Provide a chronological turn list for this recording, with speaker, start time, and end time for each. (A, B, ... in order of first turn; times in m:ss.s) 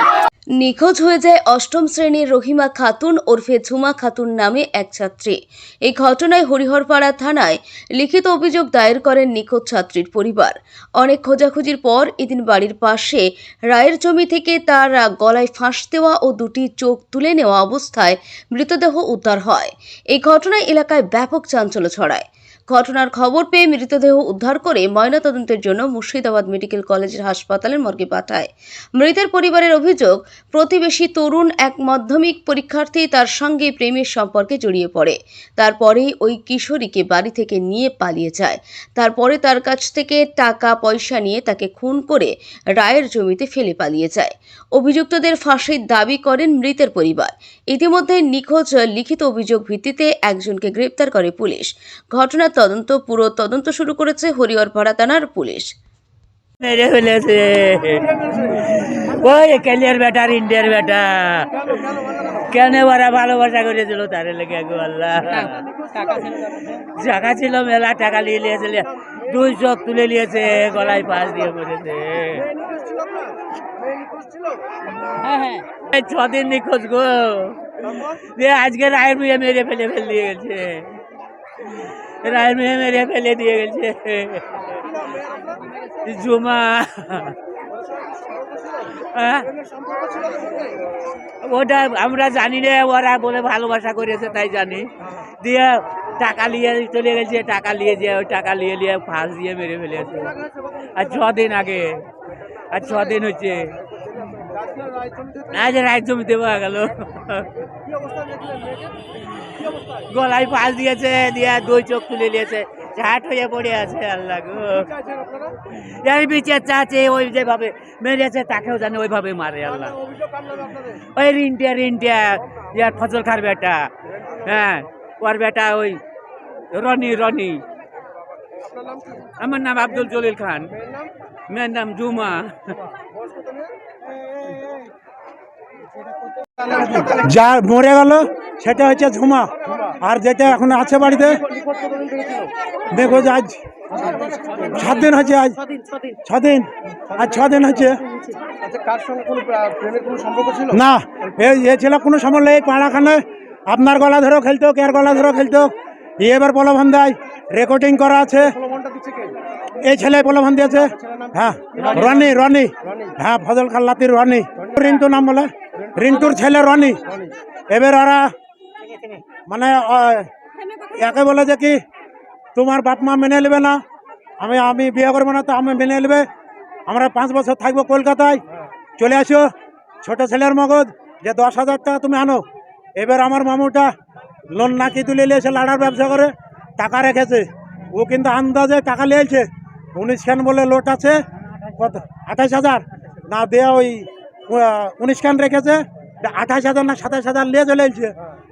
0:00.6-0:55.7 A
0:56.6-1:01.5 B
0:58.2-0:58.6 C
1:01.6-1:02.5 C
1:02.5-1:05.6 B
1:05.4-1:06.7 C
1:06.8-1:12.5 B
1:12.4-1:14.6 C
1:15.2-1:20.9 B
1:21.8-1:24.6 B
1:24.8-1:25.6 C
1:26.0-1:27.4 B
1:27.7-1:29.0 C
1:29.1-1:29.5 B
1:29.5-1:30.8 C
1:31.4-1:40.4 B
1:40.2-1:40.8 C
1:40.9-1:42.0 B
1:42.7-1:43.7 B
1:44.0-1:45.6 C
1:45.5-1:47.5 B
1:47.8-1:49.0 C
1:49.6-1:50.1 C
1:50.1-1:54.9 B
1:54.9-1:55.5 C
1:55.7-1:59.9 B
1:59.8-2:01.0 C
2:01.2-2:03.9 B
2:04.4-2:06.0 B
2:06.7-2:07.6 B
2:08.6-2:09.3 C
2:09.4-2:10.7 B
2:10.8-2:11.1 C
2:11.5-2:12.8 B
2:12.9-2:13.7 C
2:16.6-2:17.1 C
2:16.7-2:21.4 D
2:19.6-2:20.0 C
2:21.3-2:22.5 C
2:22.9-2:23.6 D
2:23.9-2:24.9 C
2:24.7-2:25.6 D
2:25.6-2:26.2 C
2:26.2-2:28.0 D
2:28.5-2:30.7 C
2:30.7-2:38.6 D
2:38.6-2:39.4 C
2:39.8-2:47.1 D
2:41.0-2:42.2 C
2:47.7-2:48.3 D
2:49.5-2:50.3 D
2:50.9-2:51.8 D
2:52.5-2:53.8 D
2:54.4-2:56.3 D
2:56.9-2:58.4 D
2:59.0-2:59.5 D
3:00.0-3:02.4 D
3:03.0-3:03.9 D
3:04.5-3:11.2 D
3:11.8-3:18.1 D